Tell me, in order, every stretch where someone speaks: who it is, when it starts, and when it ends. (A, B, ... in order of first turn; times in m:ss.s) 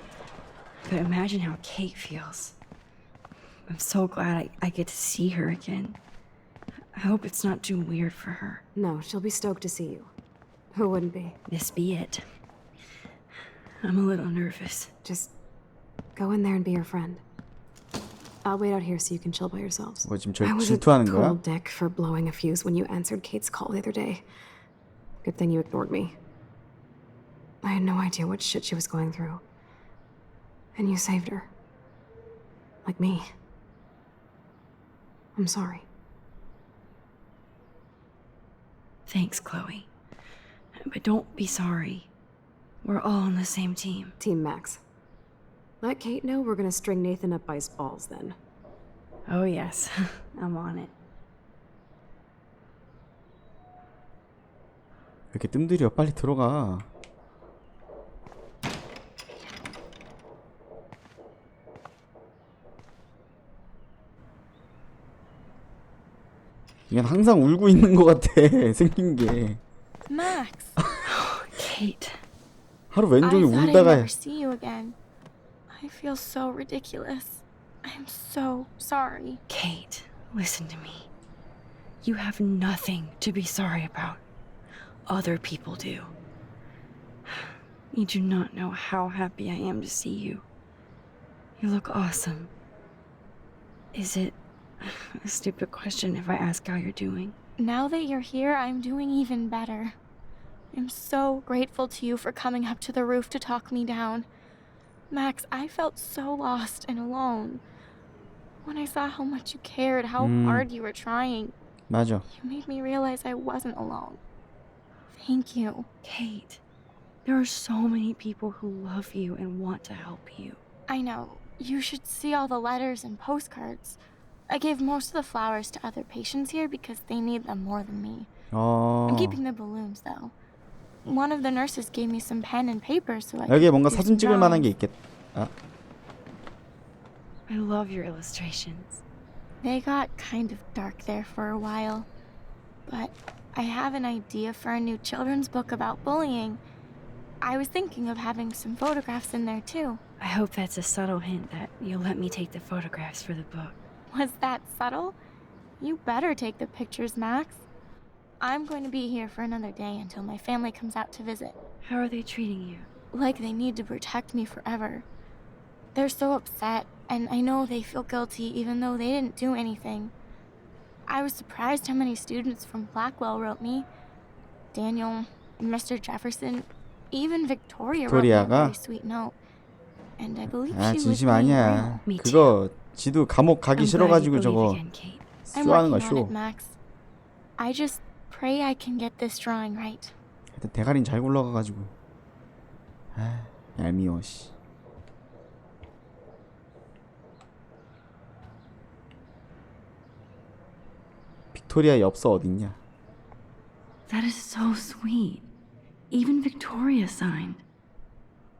0:00.9-0:02.6 A
0:03.7-0:06.0 A
0:06.9-0:08.6 A
0:08.8-0:10.1 B
0:10.7-0:11.4 B
0:11.5-0:12.2 A
0:13.8-0:14.9 A
0:15.0-0:15.3 B
0:16.1-0:17.2 B
0:18.4-0:24.2 B
0:20.0-0:21.4 C
0:25.2-0:26.2 B
0:27.6-0:29.4 B
0:30.7-0:31.5 B
0:32.8-0:33.3 B
0:35.4-0:35.8 B
0:39.1-0:39.9 A
0:40.7-0:42.1 A
0:42.8-0:44.2 A
0:44.2-0:44.8 B
0:45.8-0:48.4 B
0:49.3-0:50.9 A
0:55.3-0:56.9 C
1:06.9-1:09.6 C
1:10.1-1:10.8 D
1:11.0-1:12.2 A
1:12.9-1:14.1 C
1:13.2-1:15.0 D
1:15.7-1:19.4 D
1:19.5-1:21.1 A
1:22.0-1:24.2 A
1:25.1-1:26.1 A
1:27.3-1:30.4 A
1:31.6-1:32.5 A
1:33.9-1:37.4 A
1:37.6-1:39.9 D
1:40.7-1:44.2 D
1:45.1-1:47.6 D
1:48.6-1:51.5 D
1:50.2-1:50.7 C
1:51.9-1:52.2 C
1:52.4-1:54.2 D
1:55.1-1:55.9 D
1:56.0-1:56.6 A
1:57.2-2:00.6 A
2:00.9-2:04.0 D
2:04.5-2:08.3 D
2:08.5-2:09.4 C
2:09.1-2:10.3 D
2:11.0-2:14.7 D
2:13.5-2:15.5 C
2:17.5-2:19.0 A
2:19.6-2:22.1 D
2:22.9-2:26.6 D
2:27.4-2:30.0 D
2:30.2-2:33.8 A
2:34.1-2:35.2 D
2:35.8-2:37.7 D
2:38.4-2:41.5 D
2:41.8-2:42.9 A
2:43.1-2:45.0 D
2:45.9-2:50.1 D
2:51.1-2:53.9 D
2:54.7-2:59.4 D
2:58.0-2:58.8 C
3:00.2-3:01.8 D
3:00.7-3:04.8 C
3:01.8-3:02.5 A
3:03.7-3:05.2 A
3:05.5-3:06.3 C
3:05.5-3:06.8 D
3:07.6-3:10.1 D
3:10.5-3:11.9 C
3:13.1-3:14.5 C
3:21.5-3:22.8 C
3:24.1-3:25.5 A
3:26.1-3:27.6 A